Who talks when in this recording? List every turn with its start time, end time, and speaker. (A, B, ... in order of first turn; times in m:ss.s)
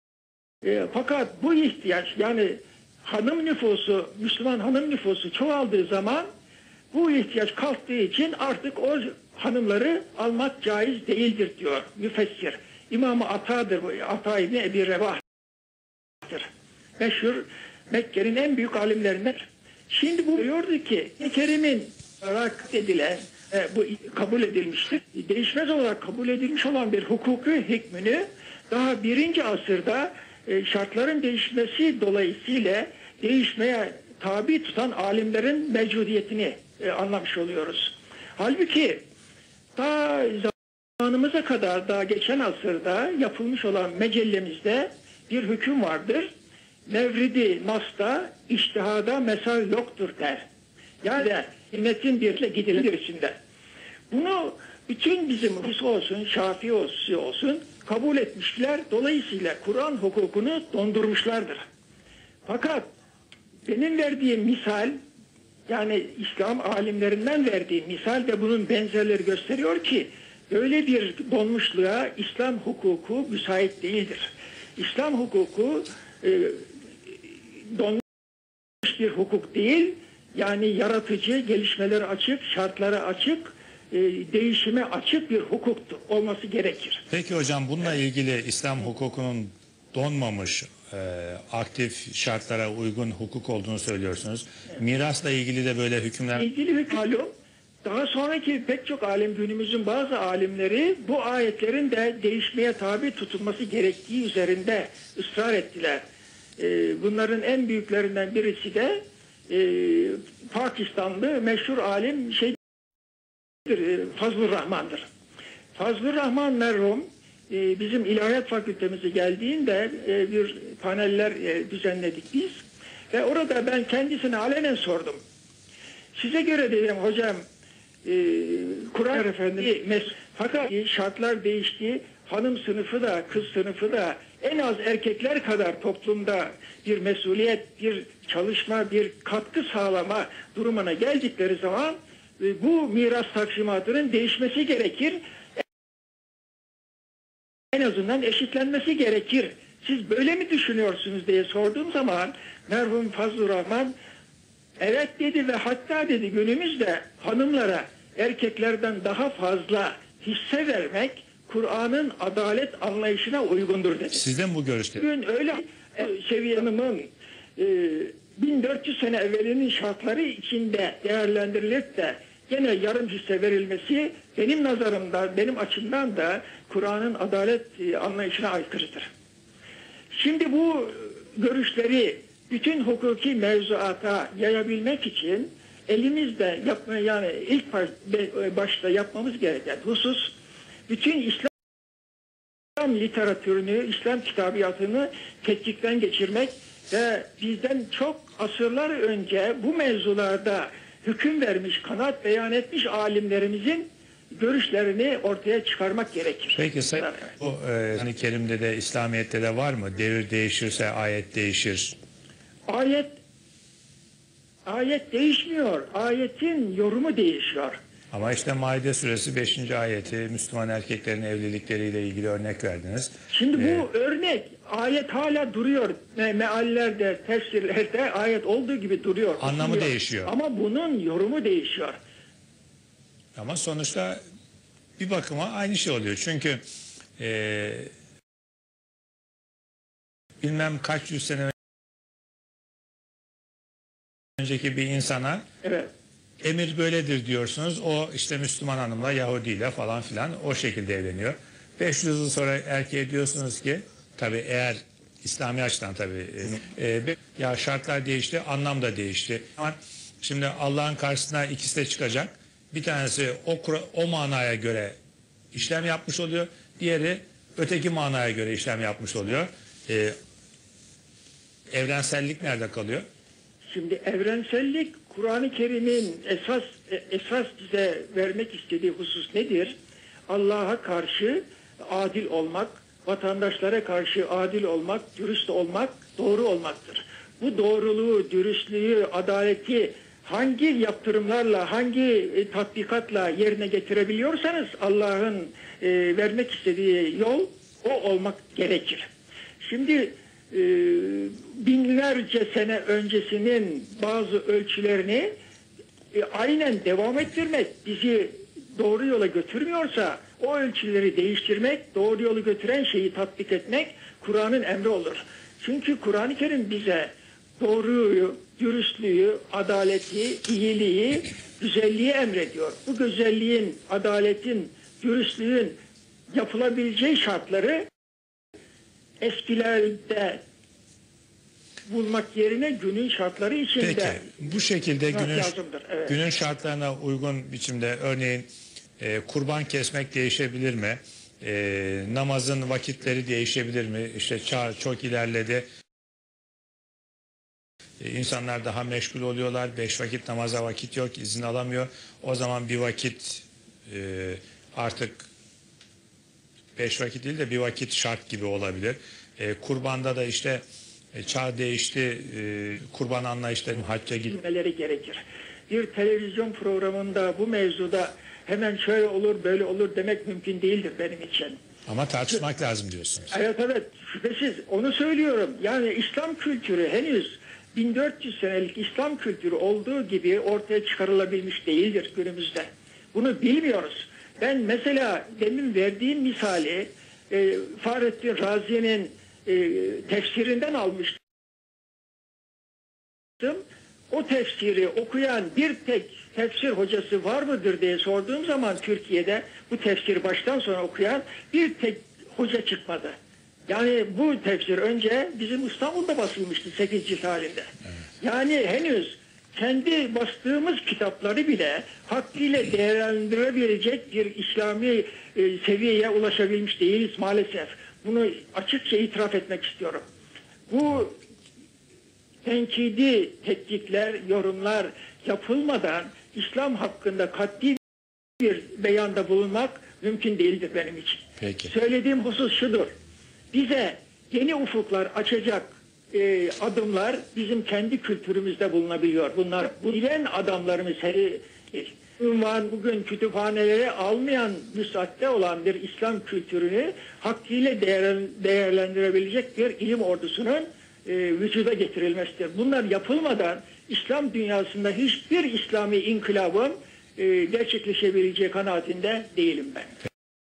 0:00.6-0:06.3 A
0:06.9-0:15.2 A
0:16.2-0:39.0 A
0:39.8-0:46.3 A
0:46.9-0:50.4 A
0:51.0-0:53.3 A
0:54.1-1:01.6 A
1:02.5-1:02.9 A
1:03.7-1:05.0 A
1:05.7-1:16.6 A
1:17.7-1:18.0 A
1:18.8-1:27.0 A
1:27.1-1:36.5 B
1:36.3-1:37.3 A
1:37.8-1:46.0 A
1:46.6-1:52.6 A
1:53.6-1:55.1 A
1:55.8-2:05.2 A
2:06.2-2:07.4 A
2:08.0-2:25.6 A
2:27.7-2:33.9 A
2:34.8-2:44.2 A
2:44.1-2:45.0 B
2:45.0-2:59.1 A
3:00.1-3:10.3 A
3:10.9-3:11.5 A
3:12.8-3:27.3 A
3:26.6-3:32.0 B
3:32.7-3:33.2 A
3:34.7-3:37.8 A
3:38.1-3:43.9 B
3:43.3-3:52.0 A
3:49.4-3:50.3 B
3:53.4-3:54.2 B
3:55.0-3:56.6 B
3:57.2-3:57.9 B
4:00.4-4:01.5 B
4:04.4-4:05.4 B
4:05.6-4:05.9 A
4:06.4-4:25.0 B
4:25.5-4:30.1 B
4:31.7-4:33.0 B
4:33.7-4:39.8 A
4:40.3-4:59.1 A
4:59.6-5:05.3 A
5:06.1-5:25.7 A
5:26.3-5:27.8 A
5:29.2-5:30.4 A
5:31.9-5:34.3 A
5:33.8-5:35.5 B
5:35.1-5:36.2 A
5:36.1-5:38.5 B
5:39.0-5:45.6 B
5:48.0-5:55.3 B
5:56.8-6:00.6 B
6:01.1-6:04.4 B
6:04.3-6:11.6 A
6:11.9-6:13.4 B
6:13.3-6:31.2 A
6:33.4-6:43.2 A
6:43.7-6:47.7 A
6:48.2-7:00.0 A
7:00.7-7:01.2 A
7:02.4-7:07.8 A
7:08.4-7:12.9 A
7:11.4-7:11.7 B
7:13.5-7:39.9 A